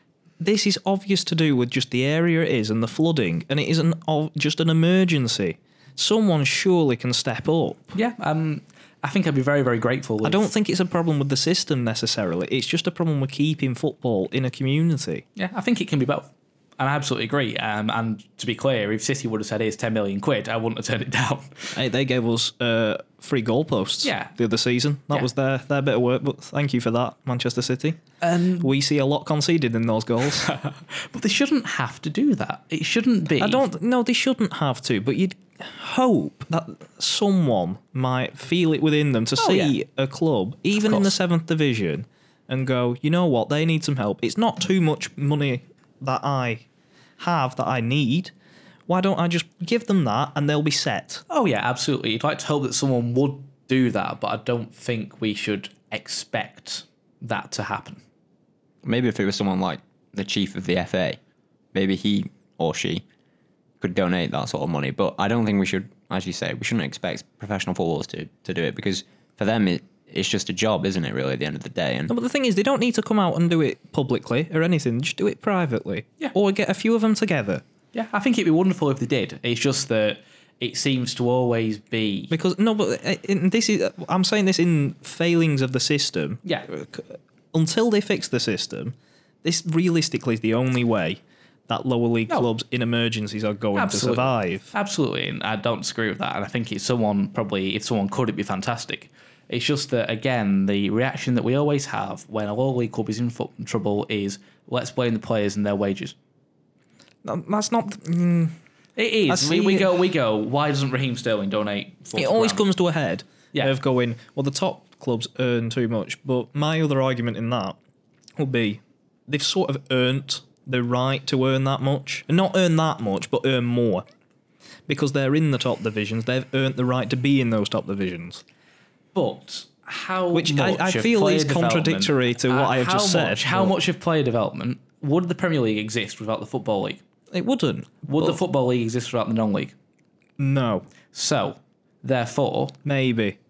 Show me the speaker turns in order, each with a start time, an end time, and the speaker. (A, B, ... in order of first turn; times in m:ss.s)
0:00.4-0:07.9 A
0:07.9-0:10.5 B
0:10.2-0:15.2 A
0:15.4-0:21.7 B
0:21.7-0:28.0 A
0:24.0-0:24.3 B
0:28.2-0:28.7 B
0:28.6-0:30.5 A
0:30.4-0:33.6 B
0:33.4-0:46.6 A
0:39.4-0:39.7 B
0:40.8-0:41.1 B
0:47.2-0:48.3 A
0:48.9-0:51.2 A
0:51.3-0:58.0 B
0:58.8-1:01.2 C
1:01.7-1:03.0 C
1:03.8-1:12.1 C
1:12.1-1:17.6 A
1:17.9-1:22.3 B
1:22.3-1:34.7 A
1:33.7-1:46.1 B
1:47.2-1:48.5 A
1:49.0-1:52.6 B
1:49.3-1:49.9 A
1:52.2-1:57.8 A
1:58.4-2:04.0 A
2:04.9-2:08.4 A
2:09.1-2:17.0 B
2:10.3-2:13.7 A
2:17.3-2:18.4 A
2:18.1-2:19.7 B
2:20.4-2:20.9 A
2:21.1-2:22.8 B
2:22.8-2:23.4 A